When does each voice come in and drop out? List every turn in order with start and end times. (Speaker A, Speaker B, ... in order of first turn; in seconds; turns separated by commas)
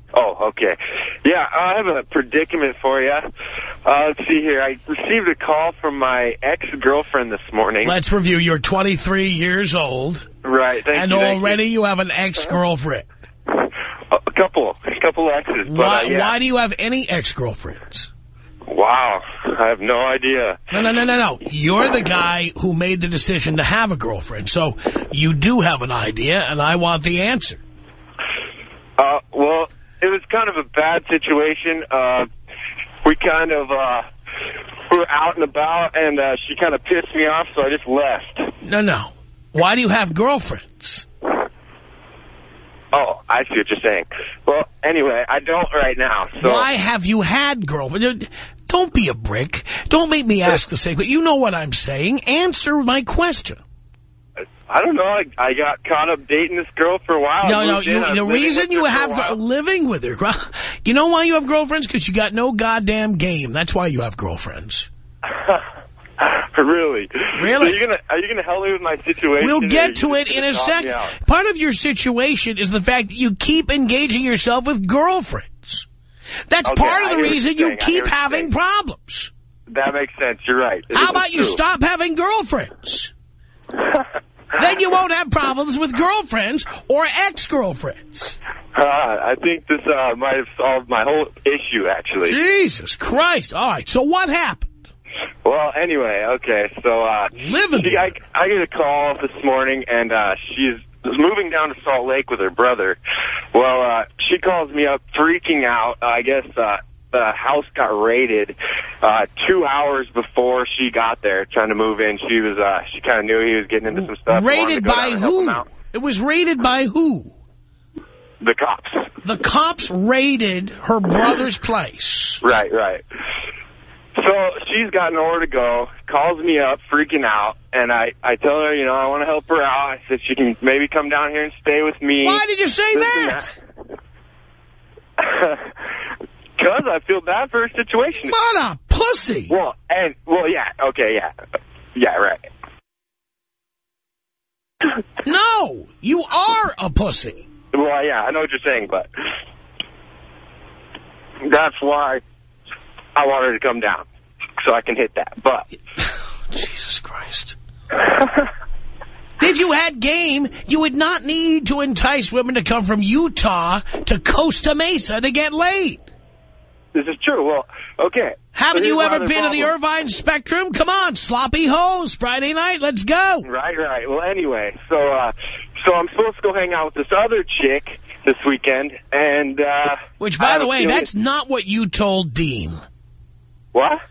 Speaker A: 0.1-3.3, Speaker A: 3.9-8.0, Speaker B: 7.8-10.3, Speaker A: 10.4-11.6, Speaker B: 10.9-13.1, Speaker A: 14.1-16.4, Speaker B: 15.7-18.1, Speaker A: 18.7-20.6, Speaker B: 20.7-27.6, Speaker A: 29.0-32.3, Speaker A: 33.0-34.1, Speaker A: 34.9-38.5, Speaker B: 38.6-41.1, Speaker A: 42.9-46.7, Speaker B: 46.4-53.6, Speaker A: 54.7-59.4, Speaker B: 57.4-64.9, Speaker A: 65.3-65.6, Speaker A: 66.2-71.1, Speaker B: 67.4-67.8, Speaker B: 69.4-75.9, Speaker B: 76.5-79.3, Speaker A: 76.7-78.5, Speaker A: 79.7-81.6, Speaker B: 80.9-83.1, Speaker B: 84.6-88.4, Speaker A: 88.7-92.4, Speaker B: 92.3-94.7, Speaker A: 95.4-103.0, Speaker B: 97.3-98.2, Speaker A: 103.5-115.7, Speaker B: 113.9-117.3, Speaker A: 118.4-119.1, Speaker B: 119.2-122.4, Speaker A: 122.4-123.0, Speaker A: 124.2-132.4, Speaker B: 132.2-133.6, Speaker A: 132.9-133.5, Speaker A: 135.2-135.6, Speaker A: 136.6-138.4, Speaker B: 138.3-139.5, Speaker A: 139.5-141.3, Speaker A: 141.9-142.5, Speaker B: 145.2-147.4, Speaker A: 147.7-149.1, Speaker A: 151.4-152.2, Speaker A: 153.2-154.1, Speaker A: 154.6-155.7, Speaker B: 156.0-157.6, Speaker B: 159.4-166.0, Speaker A: 166.9-169.7, Speaker B: 168.6-173.5, Speaker A: 173.4-181.1, Speaker B: 180.2-182.8, Speaker A: 183.7-184.0